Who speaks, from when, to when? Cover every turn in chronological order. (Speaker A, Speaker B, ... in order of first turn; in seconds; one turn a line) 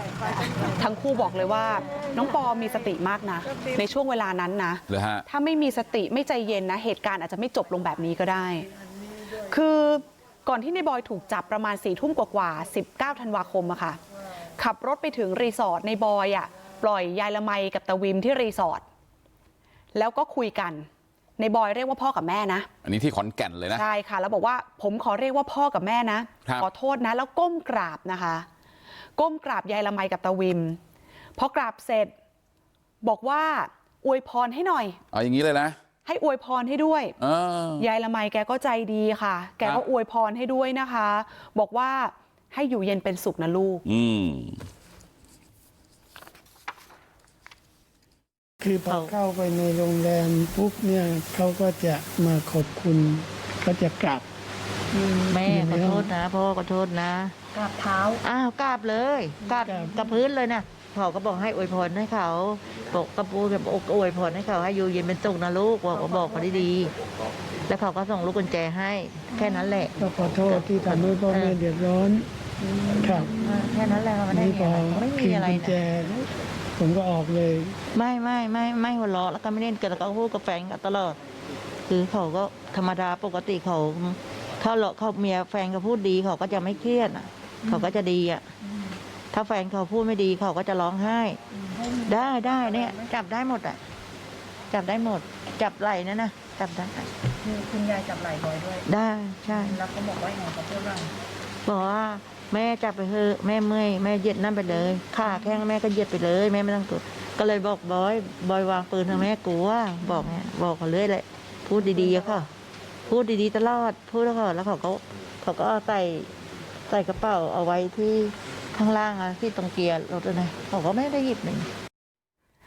Speaker A: 0.2-8.7
Speaker B: 4.9-5.2
Speaker A: 9.4-14.0
Speaker A: 14.6-18.8
Speaker A: 19.9-20.9
Speaker A: 21.4-22.7
Speaker B: 22.8-23.8
Speaker A: 23.7-28.4
Speaker A: 29.2-30.8
Speaker A: 31.4-32.1
Speaker A: 33.0-35.0
Speaker B: 35.1-35.8
Speaker A: 36.0-37.1
Speaker B: 37.2-37.9
Speaker A: 37.8-43.8
Speaker B: 43.9-44.6
Speaker C: 48.6-54.2
Speaker D: 48.9-49.1
Speaker C: 55.1-56.1
Speaker D: 55.3-57.4
Speaker E: 57.5-58.2
Speaker D: 58.2-66.9
Speaker C: 59.7-59.9
Speaker D: 67.7-71.6
Speaker C: 70.0-72.3
Speaker C: 73.0-73.3
Speaker D: 73.0-75.8
Speaker C: 74.3-77.8
Speaker D: 77.9-81.2
Speaker D: 81.9-88.5
Speaker D: 89.3-91.4
Speaker E: 91.7-92.9
Speaker D: 92.0-93.8
Speaker D: 94.7-97.1
Speaker E: 97.4-98.8
Speaker D: 98.8-99.8
Speaker E: 99.6-101.1
Speaker D: 101.6-112.5
Speaker D: 113.1-116.3
Speaker D: 116.9-121.7